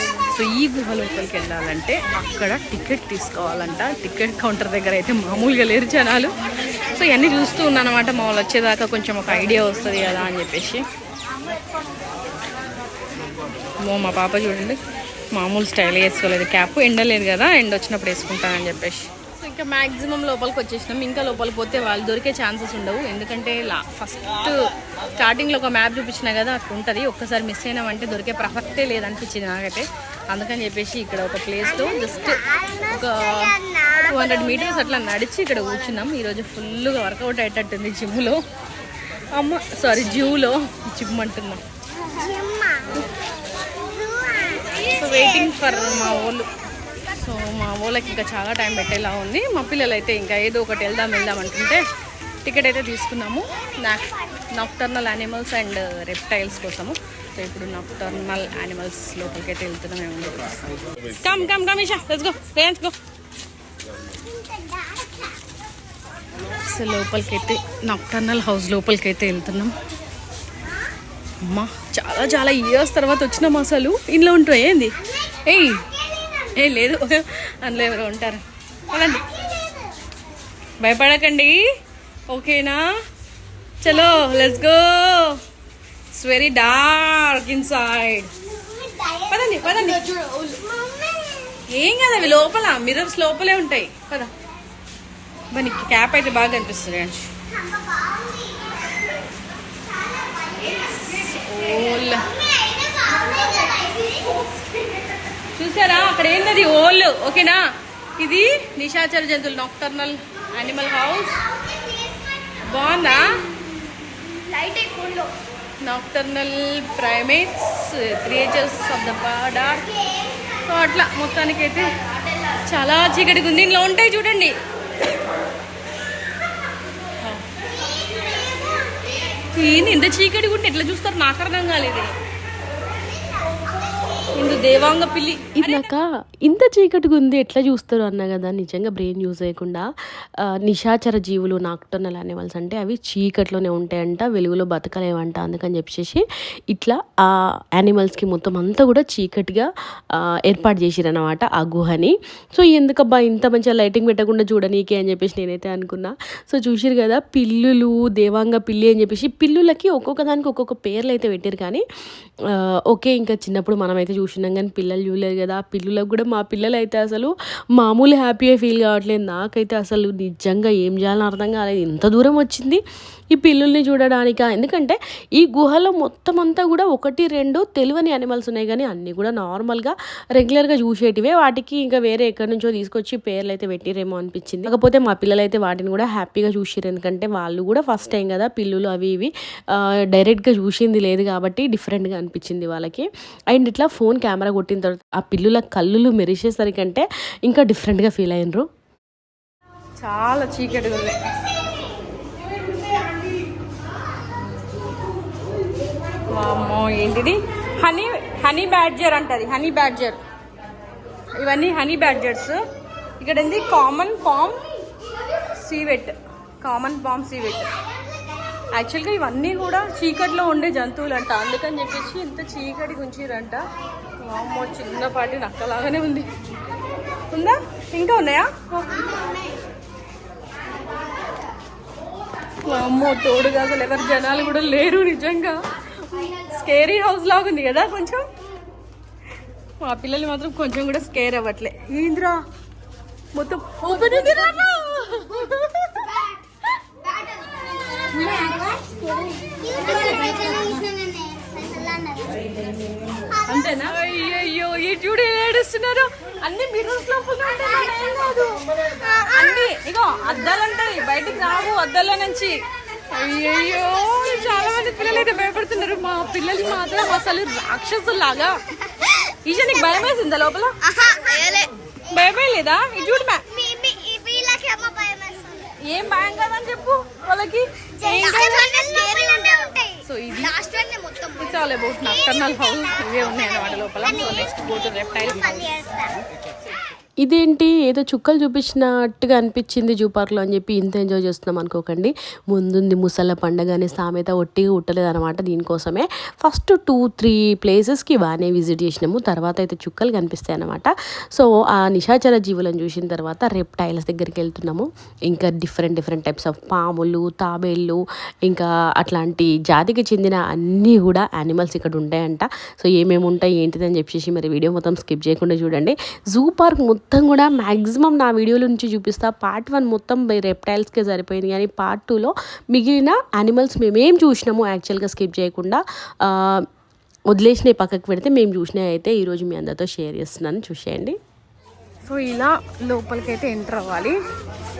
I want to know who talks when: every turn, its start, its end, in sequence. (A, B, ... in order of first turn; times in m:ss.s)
0:00.3-0:06.3 A
0:06.9-0:10.8 A
0:13.8-0:14.8 A
0:15.3-0:38.4 A
0:39.3-0:41.6 A
0:42.1-0:42.9 B
0:43.8-0:44.7 B
0:44.9-0:46.5 A
0:47.1-0:51.8 A
0:52.4-1:00.6 A
1:01.1-1:02.9 A
1:04.3-1:05.3 B
1:06.7-1:09.7 A
1:11.4-1:15.9 A
1:16.5-1:19.3 A
1:19.2-1:19.9 B
1:20.8-1:21.6 A
1:22.3-1:22.8 A
1:23.8-1:25.4 A
1:26.1-1:28.3 A
1:28.6-1:31.6 B
1:29.3-1:30.0 A
1:31.7-1:34.3 A
1:35.5-1:37.3 A
1:37.5-1:39.1 B
1:39.7-1:41.0 B
1:40.9-1:42.3 A
1:41.9-1:44.4 B
1:45.6-1:47.6 A
1:48.2-1:51.4 A
1:51.7-1:52.0 B
1:52.6-1:53.3 A
1:54.1-1:55.3 B
1:55.8-1:59.9 A
2:00.7-2:01.9 A
2:02.7-2:04.5 A
2:09.5-2:12.1 A
2:14.4-2:15.9 A
2:15.6-2:41.8 C
2:42.5-2:52.8 C
2:53.3-3:18.7 C
3:20.0-3:21.2 A
3:26.3-3:30.2 A
3:31.4-3:32.6 A
3:33.2-3:34.6 A
3:35.6-3:37.7 A
3:38.7-3:43.6 A
3:44.2-3:46.3 A
3:47.3-3:48.8 A
3:48.9-3:49.5 B
3:52.6-3:58.2 A
3:59.8-4:02.4 A
4:03.3-4:06.2 A
4:07.0-4:12.6 B
4:08.2-4:08.6 A
4:13.5-4:22.6 A
4:23.1-4:28.6 A
4:29.4-4:30.8 A
4:30.8-4:31.7 B
4:32.1-4:33.4 A
4:33.5-4:35.8 B
4:35.8-4:38.7 A
4:38.0-4:40.0 B
4:40.0-4:40.5 A
4:40.5-4:41.4 B
4:41.4-4:45.7 A
4:45.8-4:46.1 B
4:47.2-5:26.7 C
5:27.3-5:31.2 C
5:32.1-5:34.2 A